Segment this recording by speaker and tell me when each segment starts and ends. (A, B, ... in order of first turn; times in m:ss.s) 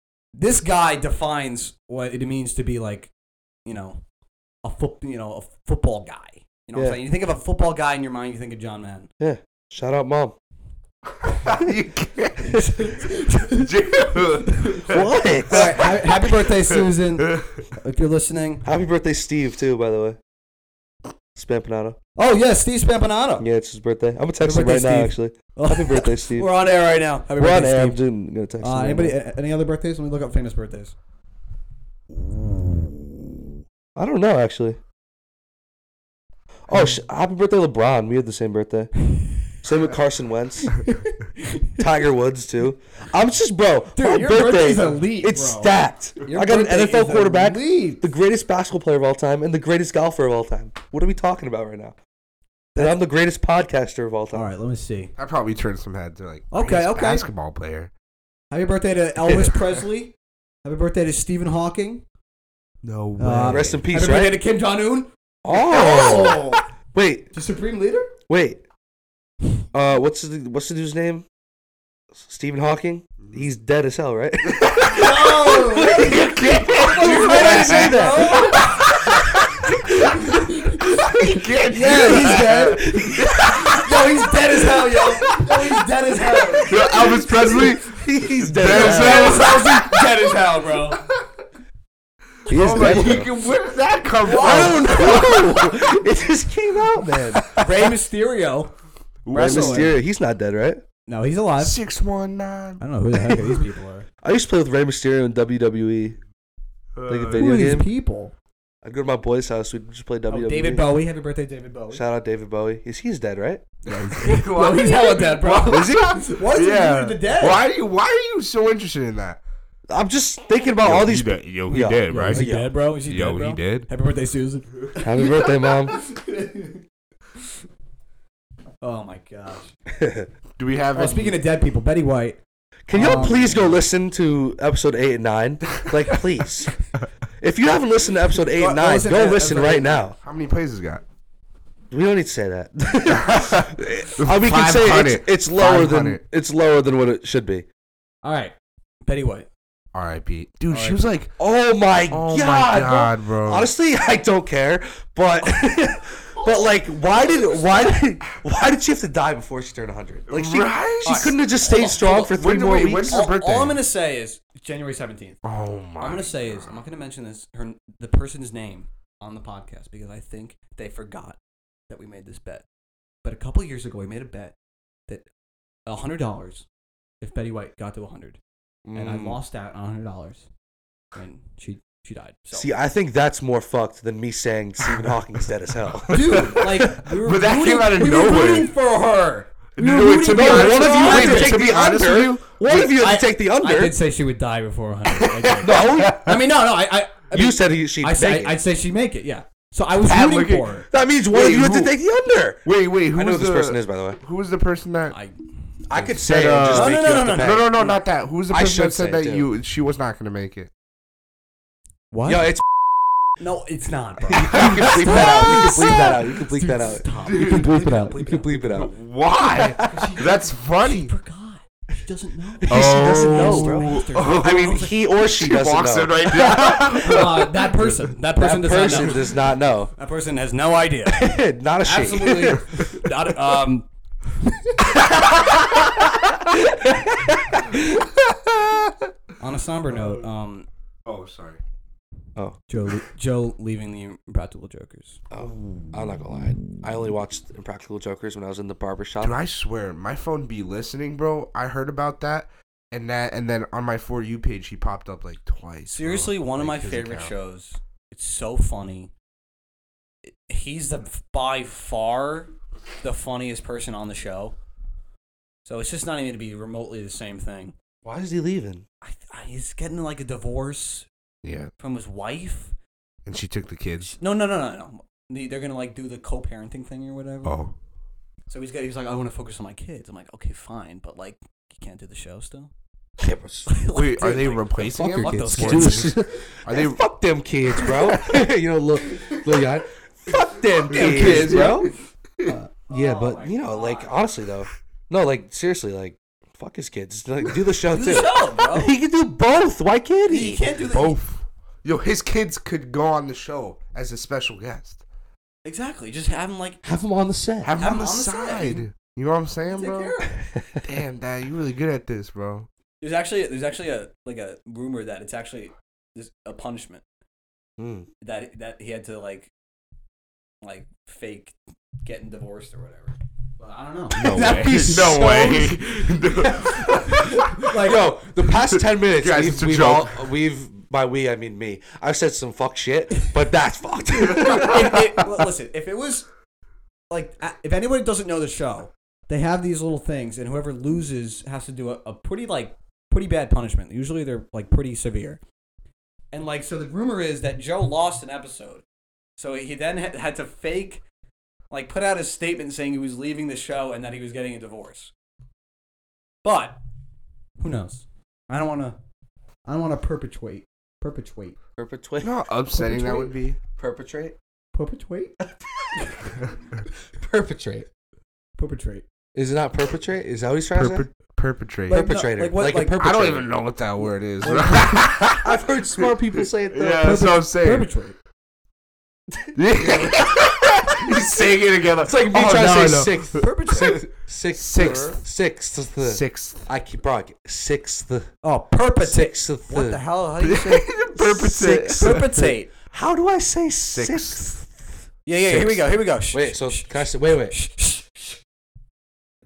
0:00.4-0:03.1 A
0:03.6-0:04.0 A
0:04.6-0:09.1 A
0:06.7-0:07.0 B
0:09.2-0:10.4 B
0:11.2-0:17.6 C
0:12.6-0:13.7 A
0:14.9-0:15.9 B
0:15.5-0:18.6 A
0:18.6-0:20.2 B
0:21.4-0:22.0 B
0:22.2-0:23.5 A
0:23.4-0:26.5 B
0:24.4-0:28.0 A
0:27.4-0:29.2 B
0:28.6-0:31.0 A
0:32.1-0:33.2 A
0:34.0-0:34.8 B
0:36.7-0:38.9 B
0:39.1-0:39.5 A
0:39.6-0:40.8 B
0:40.7-0:41.8 A
0:41.8-0:52.0 B
0:44.0-0:48.1 A
0:52.8-0:54.5 B
0:54.3-0:55.1 A
0:55.2-0:57.9 C
0:56.5-0:57.3 A
0:58.5-1:02.0 A
0:59.2-0:59.6 B
1:02.8-1:03.8 C
1:03.2-1:06.6 A
1:03.4-1:04.4 B
1:05.4-1:07.3 B
1:05.8-1:06.4 C
1:07.3-1:08.1 A
1:08.3-1:08.6 B
1:09.7-1:11.3 B
1:12.1-1:16.3 B
1:14.5-1:20.1 C
1:14.8-1:16.2 A
1:16.7-1:18.8 A
1:16.8-1:18.6 B
1:20.0-1:26.8 A
1:21.1-1:23.9 C
1:21.9-1:24.1 B
1:26.4-1:29.6 B
1:26.7-1:30.2 C
1:28.6-1:31.0 A
1:32.5-1:35.8 C
1:32.5-1:33.3 B
1:34.2-1:35.1 A
1:34.3-1:37.5 B
1:37.2-1:37.7 C
1:37.6-1:38.7 A
1:39.2-1:39.9 C
1:39.3-1:39.9 A
1:39.4-1:40.8 B
1:41.1-1:41.8 A
1:41.6-1:42.8 C
1:42.8-1:44.1 A
1:43.2-1:43.6 B
1:44.2-1:46.2 B
1:47.0-1:47.5 C
1:47.1-1:47.9 B
1:47.4-1:48.3 A
1:48.8-1:51.0 B
1:50.3-1:52.0 A
1:51.9-1:53.7 B
1:53.8-1:59.4 C
1:53.9-1:57.6 A
1:59.9-2:02.7 B
2:00.8-2:02.5 C
2:02.1-2:06.8 A
2:03.1-2:03.9 C
2:05.0-2:06.0 B
2:08.8-2:09.7 A
2:09.9-2:10.3 B
2:10.6-2:11.4 C
2:11.0-2:12.4 A
2:12.9-2:16.8 B
2:12.9-2:13.8 A
2:17.4-2:20.2 B
2:18.5-2:20.1 A
2:20.2-2:21.0 C
2:21.9-2:27.7 B
2:23.1-2:26.2 C
2:28.2-2:28.6 A
2:29.1-2:29.5 A
2:29.9-2:31.3 C
2:30.7-2:31.0 A
2:31.4-2:43.2 B
2:32.1-2:33.7 C
2:40.3-2:41.3 C
2:41.0-2:42.4 A
2:42.0-2:43.8 C
2:43.0-2:45.4 A
2:45.4-2:46.8 C
2:46.0-2:51.4 A
2:51.9-2:52.6 A
2:53.2-2:54.6 A
2:55.9-2:56.7 A
2:57.2-2:58.4 A
2:58.8-2:59.4 B
2:59.0-3:00.5 A
3:01.2-3:02.7 A
3:02.5-3:07.0 B
3:06.1-3:08.7 C
3:06.1-3:11.7 A
3:09.8-3:12.5 C
3:10.3-3:13.9 B
3:12.7-3:20.9 A
3:15.4-3:16.1 C
3:15.6-3:16.4 B
3:17.3-3:18.6 B
3:20.0-3:21.9 C
3:20.9-3:24.2 B
3:22.6-3:25.2 C
3:25.1-3:25.4 A
3:25.9-3:27.7 B
3:25.9-3:30.7 C
3:26.7-3:28.0 A
3:28.5-3:29.5 B
3:32.1-3:32.5 A
3:32.3-3:32.9 B
3:33.4-3:38.6 A
3:34.3-3:40.1 B
3:34.3-3:35.9 C
3:37.2-3:37.8 C
3:38.7-3:41.1 C
3:39.8-3:45.0 A
3:42.6-3:47.3 B
3:42.7-3:48.1 C
3:46.7-3:49.2 A
3:48.4-3:49.9 B
3:48.8-3:49.2 C
3:50.0-3:53.9 A
3:51.1-3:52.6 B
3:54.5-3:54.8 A
3:55.2-3:55.6 B
3:56.4-3:58.1 B
3:59.4-4:00.7 A
4:01.1-4:01.6 C
4:02.7-4:05.2 A
4:05.3-4:09.4 B
4:09.2-4:17.4 C
4:15.9-4:19.1 A
4:20.2-4:24.6 A
4:25.6-4:27.7 A
4:28.0-4:28.8 B
4:29.0-4:31.1 A
4:31.4-4:31.7 C
4:31.8-4:32.8 A
4:33.3-4:34.2 C
4:34.0-4:37.6 A
4:37.4-4:37.7 C
4:38.5-4:42.7 A
4:43.2-4:43.7 B
4:43.7-4:46.2 A
4:43.9-4:47.0 C
4:44.9-4:51.9 B
4:47.8-4:48.4 C
4:50.8-4:51.9 A
4:50.9-4:52.5 C
4:52.5-4:54.1 A
4:52.9-5:01.2 B
4:57.9-4:59.0 A
5:00.3-5:01.2 A
5:00.9-5:05.0 C
5:05.6-5:06.8 A
5:06.8-5:07.7 B
5:07.6-5:10.1 C
5:07.8-5:08.9 A
5:09.7-5:10.4 A
5:10.5-5:10.8 B
5:10.8-5:12.7 C
5:13.0-5:17.0 A
5:17.8-5:18.1 B
5:18.2-5:19.5 A
5:20.6-5:25.8 A
5:24.1-5:27.6 C
5:24.3-5:25.4 B
5:26.4-5:28.1 A
5:27.8-5:35.0 B
5:28.5-5:30.3 C
5:34.2-5:36.3 A
5:34.4-5:34.9 C
5:37.1-5:45.4 A
5:46.3-5:48.8 A
5:49.4-5:51.0 A
5:51.7-5:55.1 A
5:56.4-5:56.8 A
5:57.6-5:59.0 A
5:59.7-6:01.6 A
6:01.8-6:03.2 B
6:02.2-6:03.6 C
6:02.9-6:03.3 A
6:03.8-6:04.4 B
6:04.7-6:05.4 A
6:05.4-6:06.1 B
6:07.2-6:07.9 B
6:08.6-6:09.0 A
6:09.4-6:11.1 B
6:10.8-6:12.0 C
6:11.9-6:13.0 A
6:11.9-6:13.5 B
6:13.0-6:17.9 C
6:14.4-6:15.0 A
6:15.4-6:17.2 B
6:17.0-6:18.2 A
6:19.3-6:21.2 B
6:19.6-6:25.2 C
6:22.0-6:28.3 B
6:23.4-6:24.0 A
6:24.8-6:25.2 A
6:26.0-6:26.7 C
6:28.4-6:30.9 A
6:29.0-6:30.0 B
6:30.4-6:32.2 C
6:31.1-6:34.5 B
6:32.0-6:32.7 A
6:33.9-6:34.6 C
6:35.3-6:38.4 A
6:35.5-6:35.8 B
6:36.3-6:37.6 B